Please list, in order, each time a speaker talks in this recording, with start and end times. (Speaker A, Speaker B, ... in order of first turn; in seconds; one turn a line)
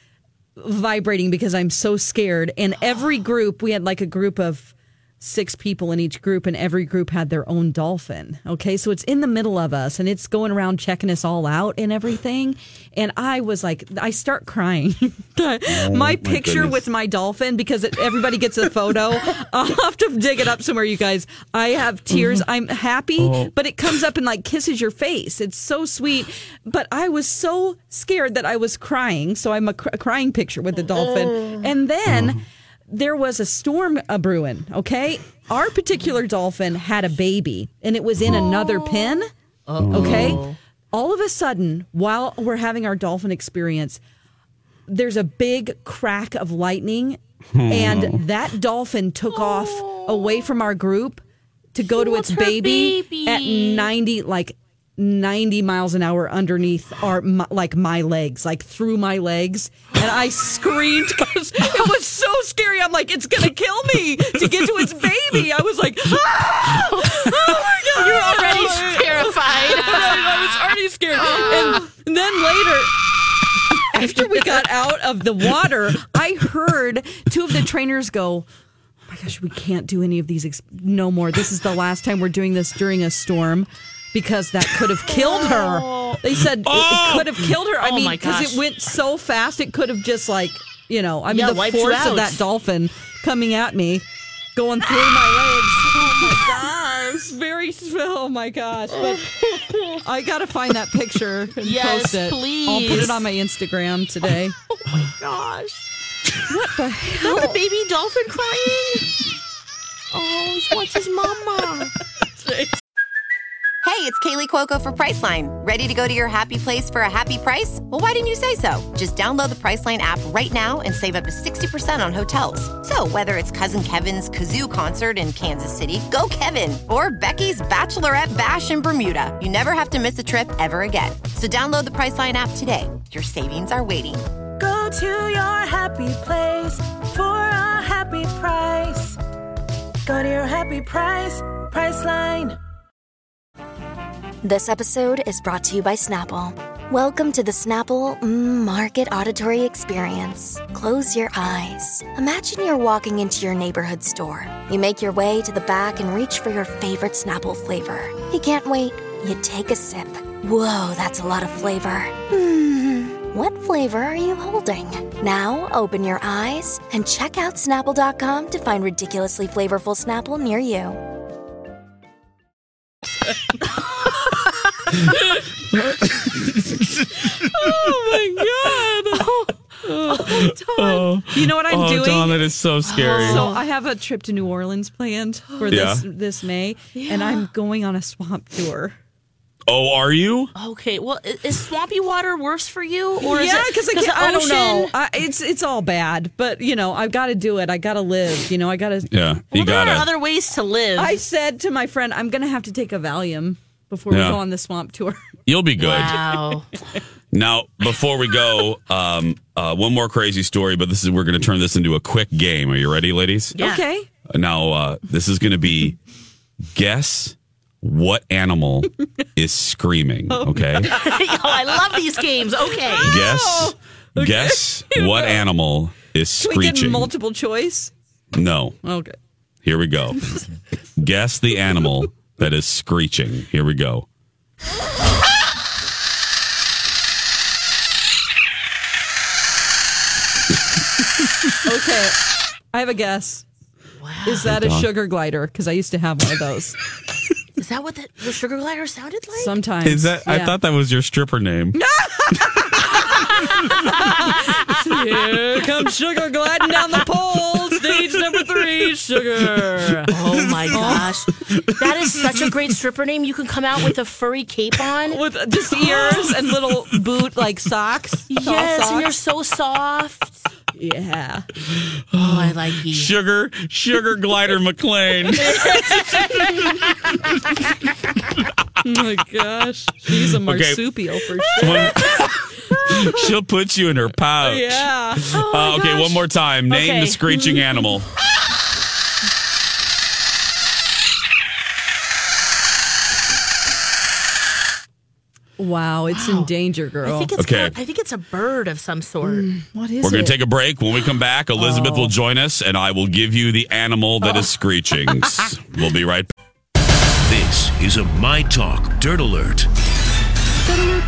Speaker A: 0.6-39.3
Speaker B: 15.7-16.9
Speaker B: 22.1-22.4
Speaker B: 23.2-23.5
Speaker B: 32.1-32.4
Speaker B: 38.2-38.5
Speaker C: 39.7-40.6
Speaker B: 39.8-40.4
Speaker A: 39.9-44.0
Speaker A: 44.9-51.2
Speaker B: 47.5-48.2
Speaker C: 49.3-50.3
Speaker A: 51.7-72.9
Speaker C: 52.0-53.9
Speaker C: 66.7-70.5
Speaker C: 71.2-71.8
Speaker A: 73.9-78.5
Speaker A: 79.1-99.3
Speaker C: 85.1-86.2
Speaker B: 86.6-87.5
Speaker C: 87.8-88.6
Speaker C: 91.3-92.4
Speaker C: 95.9-96.5
Speaker C: 98.9-100.0
Speaker A: 100.0-104.5
Speaker C: 101.6-103.2
Speaker C: 104.8-105.8
Speaker A: 106.5-107.6
Speaker C: 107.2-109.1
Speaker C: 110.1-111.9
Speaker D: 113.8-134.2
Speaker E: 134.6-139.2
Speaker E: 140.1-142.6
Speaker F: 144.4-171.0
Speaker B: 175.7-176.8
Speaker A: 177.2-179.3
Speaker C: 179.1-179.5
Speaker A: 179.8-182.4
Speaker C: 180.1-180.5
Speaker B: 180.1-183.5
Speaker C: 182.9-183.6
Speaker A: 183.2-189.0
Speaker C: 185.6-185.8
Speaker B: 185.7-186.1
Speaker C: 186.9-187.5
Speaker B: 189.7-190.5
Speaker C: 190.6-194.9
Speaker A: 193.2-199.1
Speaker B: 199.1-200.1
Speaker C: 199.5-201.2
Speaker A: 201.0-205.2
Speaker B: 204.1-204.4
Speaker B: 205.5-206.2
Speaker C: 205.8-206.7
Speaker B: 207.3-213.6
Speaker C: 213.6-213.8
Speaker A: 213.6-214.1
Speaker B: 214.3-216.0
Speaker B: 216.7-220.9
Speaker A: 220.3-221.3
Speaker C: 220.9-223.2
Speaker A: 222.8-225.4
Speaker B: 223.0-227.1
Speaker A: 226.4-227.9
Speaker B: 228.3-228.8
Speaker A: 228.8-229.2
Speaker B: 229.6-230.3
Speaker B: 231.0-234.1
Speaker A: 241.7-242.2
Speaker A: 242.7-243.4
Speaker C: 244.0-244.5
Speaker A: 244.2-246.8
Speaker B: 244.4-244.9
Speaker C: 247.6-249.6
Speaker A: 249.3-250.6
Speaker B: 249.8-251.8
Speaker A: 251.8-260.1
Speaker C: 260.1-265.2
Speaker A: 260.7-261.2
Speaker A: 265.1-269.1
Speaker C: 266.0-266.2
Speaker C: 268.3-270.5
Speaker A: 270.7-271.5
Speaker B: 272.1-275.8
Speaker C: 272.2-273.1
Speaker A: 275.5-276.8
Speaker C: 275.7-276.3
Speaker A: 278.8-283.3
Speaker B: 280.2-280.9
Speaker B: 281.6-288.1
Speaker C: 281.6-281.9
Speaker A: 284.4-285.4
Speaker C: 285.2-287.6
Speaker A: 295.6-297.3
Speaker C: 296.1-296.5
Speaker C: 297.0-299.5
Speaker B: 297.4-297.8
Speaker A: 299.2-300.4
Speaker B: 300.0-306.3
Speaker A: 301.6-302.1
Speaker G: 307.3-309.7